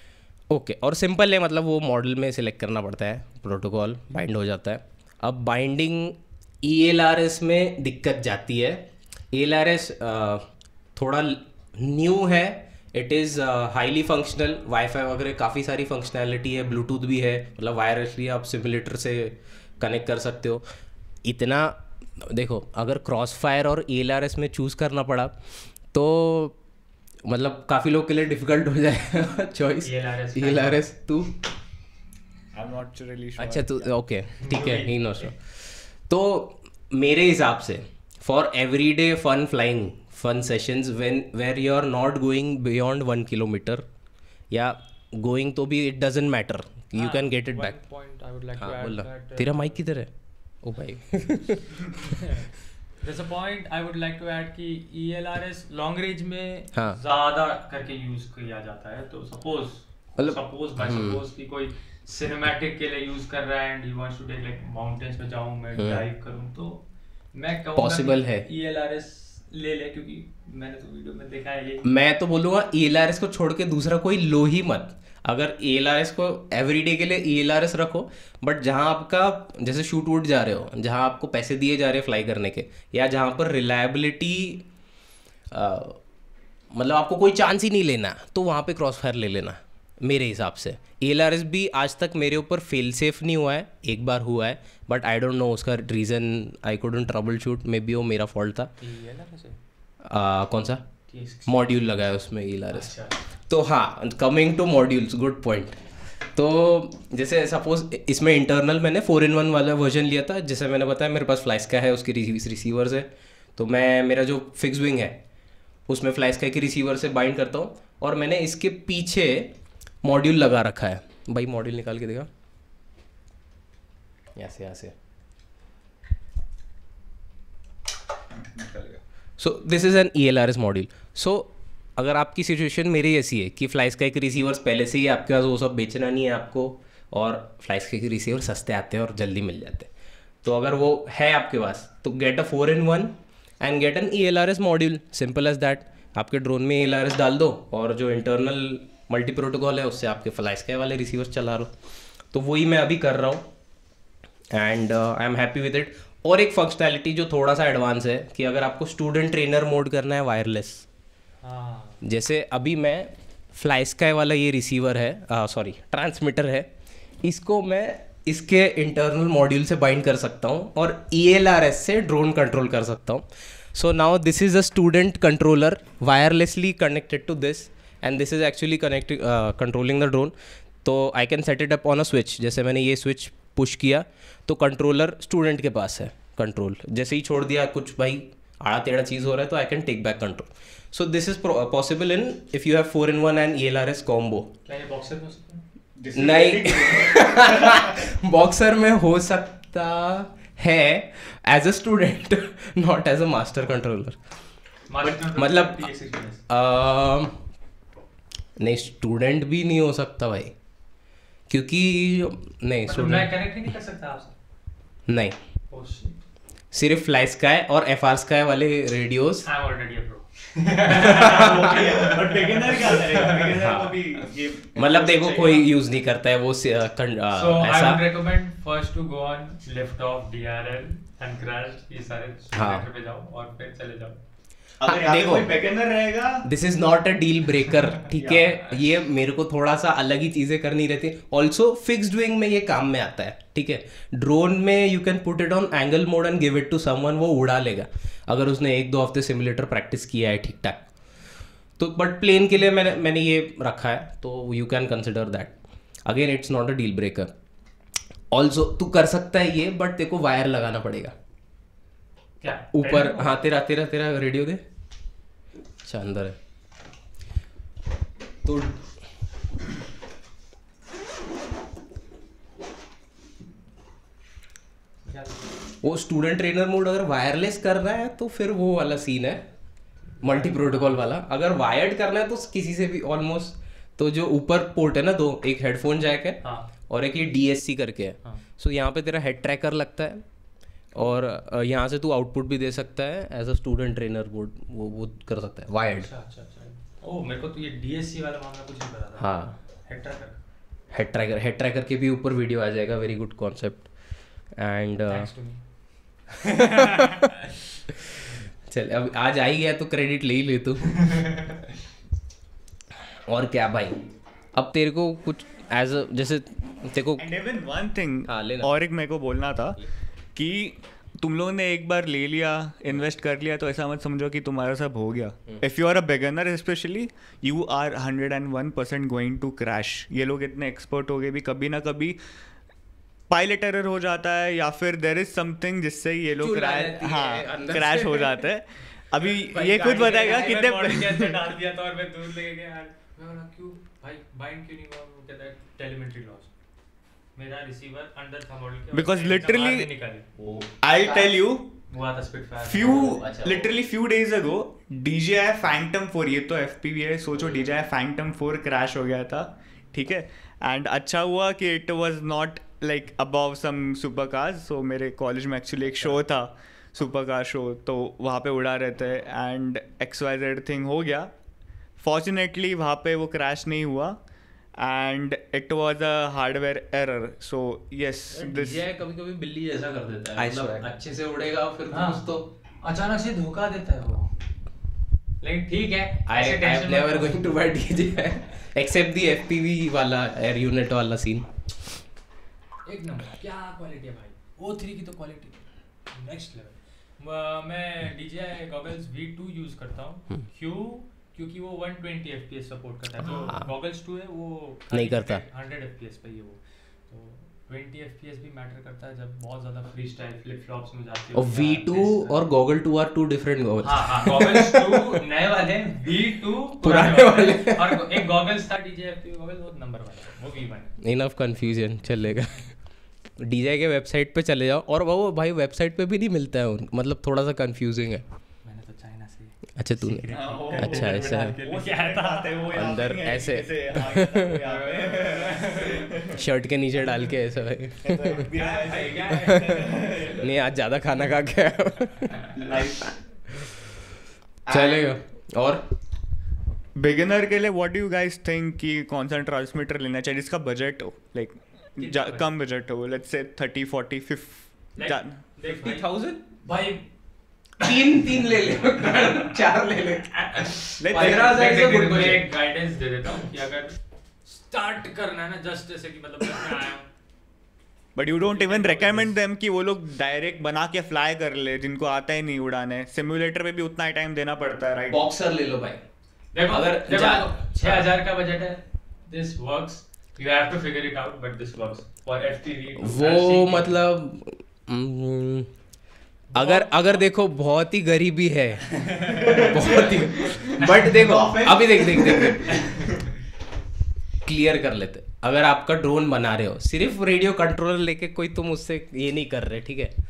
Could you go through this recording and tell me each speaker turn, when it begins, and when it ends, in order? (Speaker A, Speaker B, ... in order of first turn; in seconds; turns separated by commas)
Speaker A: 0.5-10.4, Speaker A: 11.0-20.6, Speaker A: 21.2-25.4, Speaker A: 25.9-26.6, Speaker A: 27.2-31.3, Speaker B: 29.8-30.9, Speaker C: 32.5-33.9, Speaker A: 33.4-43.9, Speaker B: 34.4-35.3, Speaker A: 44.5-47.8, Speaker B: 46.9-49.8, Speaker A: 48.6-51.9, Speaker B: 51.9-66.8, Speaker A: 56.7-57.0, Speaker A: 60.2-61.2, Speaker A: 65.8-66.0, Speaker B: 67.3-71.9, Speaker A: 67.8-68.5, Speaker A: 71.8-84.7, Speaker A: 85.5-86.0, Speaker A: 86.7-98.7, Speaker B: 98.8-99.6, Speaker A: 100.0-100.9, Speaker B: 101.1-101.6, Speaker A: 101.5-103.0, Speaker B: 102.7-103.2, Speaker A: 103.5-105.8, Speaker A: 106.3-115.2, Speaker A: 115.9-122.3, Speaker A: 124.3-125.0, Speaker C: 128.5-129.0, Speaker A: 129.4-139.9, Speaker A: 140.4-151.7, Speaker A: 152.3-153.5, Speaker A: 154.5-160.9, Speaker B: 161.4-162.0, Speaker A: 162.0-166.7, Speaker A: 167.2-194.5, Speaker B: 194.7-195.6, Speaker C: 196.0-197.9, Speaker A: 196.1-204.2, Speaker B: 204.9-206.4, Speaker A: 205.0-205.9, Speaker A: 206.5-207.4, Speaker A: 208.6-210.6, Speaker A: 211.5-213.3, Speaker B: 212.9-214.3, Speaker A: 215.1-215.4, Speaker B: 215.7-216.2, Speaker A: 216.7-219.5, Speaker B: 219.4-223.5, Speaker A: 220.9-221.8, Speaker C: 221.0-225.7, Speaker A: 223.5-224.0, Speaker A: 224.8-228.0, Speaker B: 227.3-234.2, Speaker A: 232.5-232.9, Speaker C: 234.8-236.4, Speaker A: 234.8-235.5, Speaker A: 236.4-250.9, Speaker C: 238.1-238.6, Speaker A: 251.8-257.3, Speaker A: 258.3-261.1, Speaker B: 262.4-263.4, Speaker A: 262.7-264.6, Speaker A: 265.8-266.4, Speaker A: 268.4-268.8, Speaker B: 275.1-275.4, Speaker A: 275.8-279.4, Speaker B: 280.2-281.1, Speaker A: 280.2-290.2, Speaker B: 286.4-286.7, Speaker A: 290.9-296.1, Speaker B: 295.9-300.4, Speaker A: 299.2-299.5, Speaker A: 300.9-303.9, Speaker A: 304.6-305.3, Speaker B: 305.1-305.6, Speaker A: 306.4-307.3, Speaker B: 306.5-307.4, Speaker A: 307.9-311.4, Speaker B: 311.0-311.6, Speaker A: 313.3-314.0, Speaker A: 314.5-317.2, Speaker C: 317.2-319.8, Speaker A: 318.3-318.7, Speaker C: 320.4-332.2, Speaker C: 333.3-341.4, Speaker A: 336.4-338.5, Speaker A: 339.2-340.6, Speaker B: 339.8-346.5, Speaker B: 347.4-350.3, Speaker C: 348.9-349.9, Speaker A: 350.4-351.3, Speaker C: 350.8-351.7, Speaker B: 351.9-353.1, Speaker C: 352.6-371.3, Speaker A: 352.8-353.7, Speaker C: 372.0-374.2, Speaker C: 374.8-378.9, Speaker A: 378.3-382.4, Speaker C: 380.4-380.8, Speaker B: 381.9-382.3, Speaker B: 382.8-384.3, Speaker B: 385.4-387.9, Speaker A: 386.3-391.8, Speaker B: 392.9-412.4, Speaker A: 403.2-403.7, Speaker A: 404.9-405.4, Speaker A: 411.3-415.2, Speaker B: 413.8-421.0, Speaker A: 416.8-418.2, Speaker A: 421.0-422.7, Speaker A: 423.4-428.2, Speaker B: 428.6-433.2, Speaker A: 429.8-431.6, Speaker C: 430.3-436.5, Speaker A: 432.7-434.6, Speaker B: 434.5-436.2, Speaker A: 436.3-438.5, Speaker C: 438.0-440.5, Speaker B: 438.5-440.4, Speaker A: 439.2-442.8, Speaker C: 442.5-443.2, Speaker A: 443.5-444.0, Speaker C: 444.7-445.1, Speaker A: 444.7-445.8, Speaker C: 447.0-455.4, Speaker B: 452.0-452.5, Speaker B: 455.0-456.0, Speaker A: 455.6-456.4, Speaker B: 456.6-457.1, Speaker B: 457.8-459.6, Speaker A: 457.8-462.5, Speaker B: 460.4-467.1, Speaker C: 461.0-461.8, Speaker C: 468.2-475.2, Speaker B: 468.5-469.4, Speaker A: 475.1-476.1, Speaker B: 476.5-484.0, Speaker A: 476.7-478.1, Speaker A: 483.0-485.7, Speaker B: 486.5-487.2, Speaker A: 486.5-493.0, Speaker B: 488.9-490.1, Speaker C: 489.6-493.0, Speaker B: 490.8-491.1, Speaker B: 492.7-493.2, Speaker A: 494.4-500.1